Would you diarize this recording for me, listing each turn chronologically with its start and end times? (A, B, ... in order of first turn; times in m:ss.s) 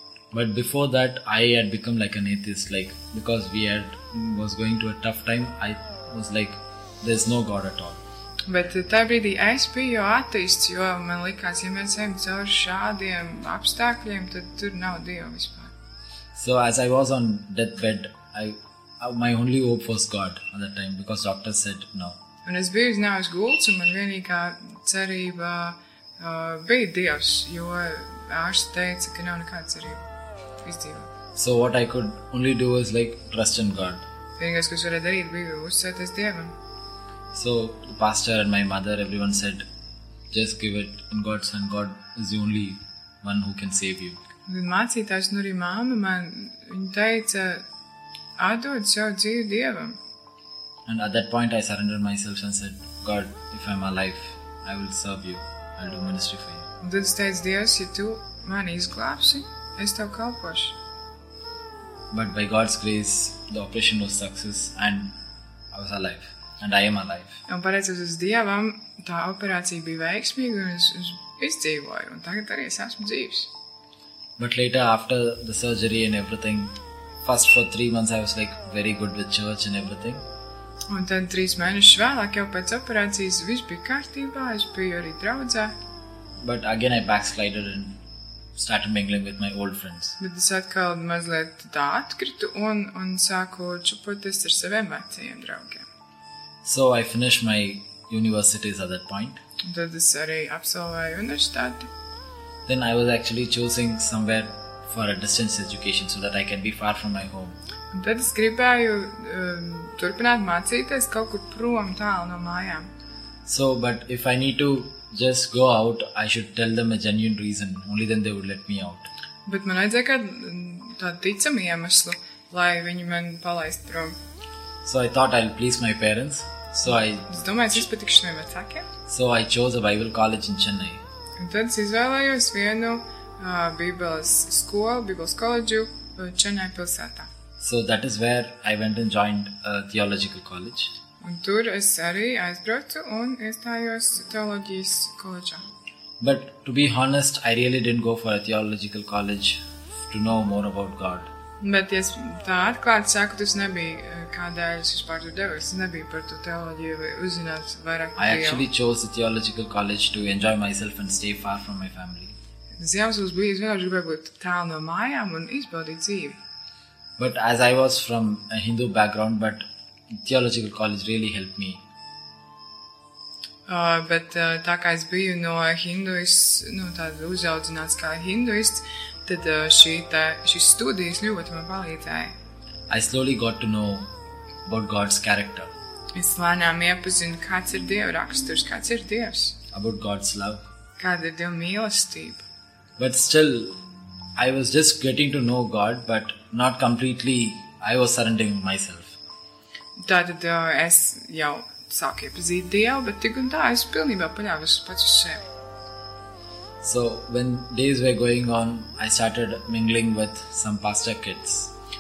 0:00.3-0:08.0 A
0:08.5-0:15.7 B
0:16.4-0:22.2 A
0:22.4-0:30.0 B
0:30.6-0:31.1 B
0:31.4-0:34.0 A
0:34.4-0:36.5 B
0:37.3-0:39.7 A
0:40.3-0:44.2 A
0:44.5-0:47.6 B
0:48.4-0:50.0 B
0:50.9-0:56.7 A
0:56.8-1:00.8 B
1:02.1-1:05.1 A
1:05.7-1:07.4 A
1:07.5-1:13.5 B
1:14.4-1:20.2 A
1:20.9-1:25.7 B
1:26.4-1:28.0 A
1:28.6-1:30.2 A
1:30.2-1:35.8 B
1:36.6-1:39.4 A
1:39.6-1:41.9 B
1:42.7-1:47.6 A
1:47.9-1:52.9 B
1:53.5-1:59.1 A
1:59.4-2:04.2 B
2:04.8-2:07.4 A
2:06.8-2:08.9 B
2:09.1-2:11.0 A
2:11.4-2:17.3 B
2:17.6-2:20.9 A
2:21.2-2:25.6 B
2:26.2-2:31.3 A
2:31.6-2:38.6 B
2:38.2-2:42.3 A
2:42.8-2:46.4 B
2:47.2-2:51.8 A
2:53.7-3:02.3 B
3:02.9-3:04.1 A
3:04.7-3:05.7 A
3:06.2-3:09.6 B
3:09.7-3:10.6 A
3:11.0-3:12.4 B
3:13.0-3:13.8 A
3:14.4-3:19.2 A
3:20.0-3:25.4 B
3:26.8-3:31.7 A